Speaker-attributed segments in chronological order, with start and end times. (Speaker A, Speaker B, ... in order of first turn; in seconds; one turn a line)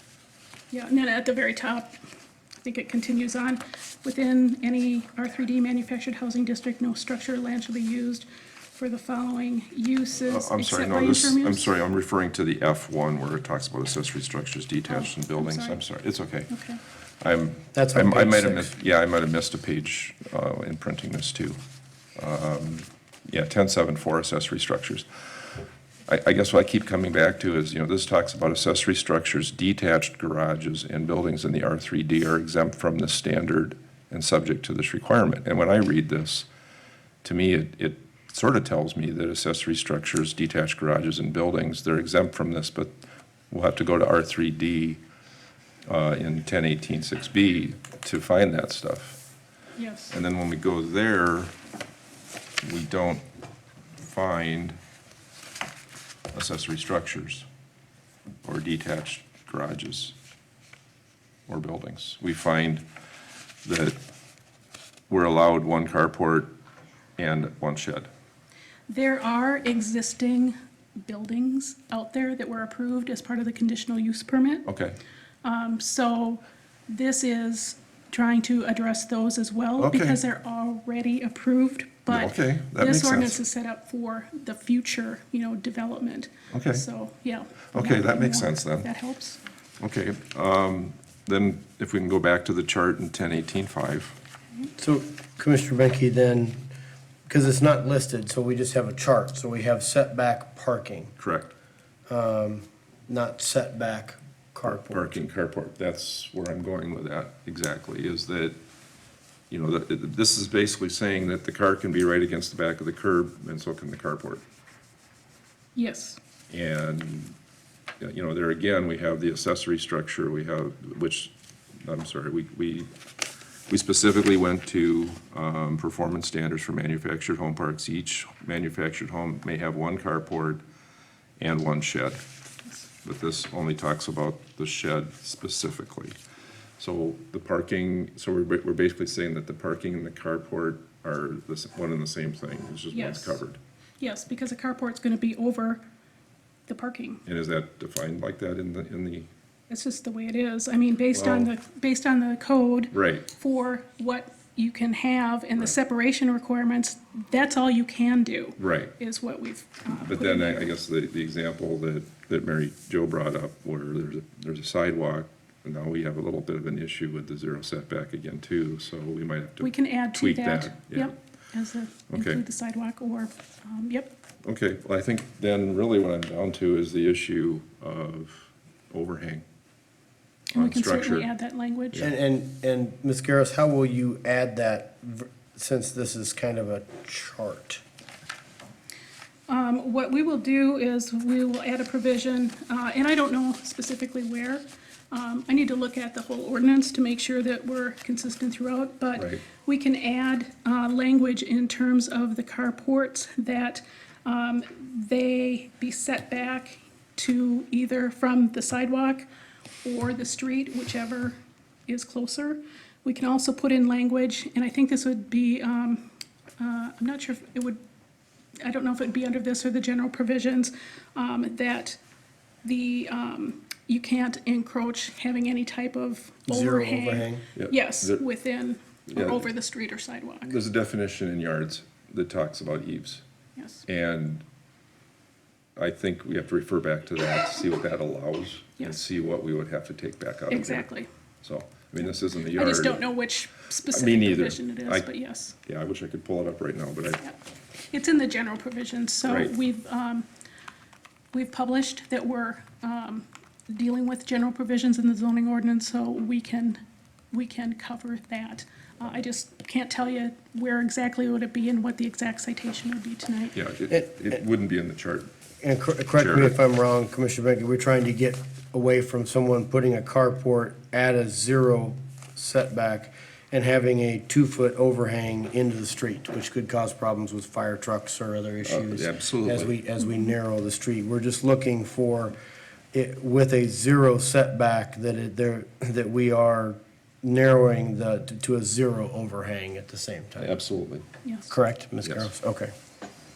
Speaker A: 0.7-2.0
Speaker A: 2.6-11.7
Speaker B: 10.3-16.5
Speaker A: 14.9-15.8
Speaker A: 16.5-16.8
Speaker B: 17.2-21.6
Speaker C: 17.7-18.7
Speaker B: 22.1-25.1
Speaker B: 26.1-36.5
Speaker B: 37.2-42.9
Speaker B: 43.5-45.0
Speaker B: 45.9-49.2
Speaker A: 49.8-50.1
Speaker B: 50.1-51.5
Speaker B: 52.6-53.2
Speaker B: 54.0-54.8
Speaker B: 56.3-57.5
Speaker B: 58.4-60.1
Speaker B: 61.5-62.8
Speaker B: 63.6-64.0
Speaker B: 65.1-66.5
Speaker B: 67.2-68.1
Speaker A: 68.9-74.7
Speaker B: 74.7-75.0
Speaker A: 75.4-89.4
Speaker B: 79.8-80.2
Speaker B: 82.1-83.4
Speaker B: 86.5-86.8
Speaker B: 87.7-88.9
Speaker B: 89.8-94.2
Speaker C: 94.8-96.7
Speaker C: 97.3-101.1
Speaker B: 101.2-101.5
Speaker C: 102.1-105.2
Speaker B: 104.7-108.6
Speaker B: 109.5-114.4
Speaker A: 115.7-116.2
Speaker B: 116.5-117.3
Speaker B: 118.0-121.3
Speaker B: 121.8-122.9
Speaker B: 123.7-130.6
Speaker B: 131.4-132.2
Speaker B: 133.0-136.2
Speaker B: 136.8-143.6
Speaker A: 142.9-143.4
Speaker A: 144.0-145.8
Speaker A: 146.7-147.2
Speaker B: 147.2-149.3
Speaker A: 149.7-160.7
Speaker B: 151.1-151.5
Speaker B: 152.9-153.3
Speaker B: 158.6-158.9
Speaker B: 159.9-171.1
Speaker A: 169.6-174.1
Speaker B: 172.1-172.4
Speaker B: 174.4-179.4
Speaker B: 180.5-181.3
Speaker A: 180.5-182.0
Speaker C: 182.0-187.8
Speaker A: 189.5-209.2
Speaker A: 209.8-217.8
Speaker A: 218.6-222.0
Speaker A: 222.6-230.5
Speaker C: 226.5-227.4
Speaker B: 227.6-228.2
Speaker B: 229.1-229.5
Speaker B: 230.4-233.2
Speaker A: 233.6-233.8
Speaker B: 233.8-234.4
Speaker B: 235.8-240.9
Speaker A: 240.5-241.1
Speaker B: 241.4-243.1
Speaker A: 242.4-245.5
Speaker B: 243.9-245.1
Speaker B: 245.6-247.2
Speaker A: 247.9-250.3
Speaker B: 249.2-249.5
Speaker A: 251.3-256.8
Speaker A: 257.3-263.6
Speaker B: 263.5-265.3
Speaker C: 263.9-264.4
Speaker C: 265.6-282.3
Speaker B: 266.2-266.5
Speaker B: 278.6-279.7
Speaker C: 282.9-290.5
Speaker B: 290.4-291.1
Speaker A: 291.2-291.6
Speaker C: 291.5-292.7
Speaker B: 292.0-292.3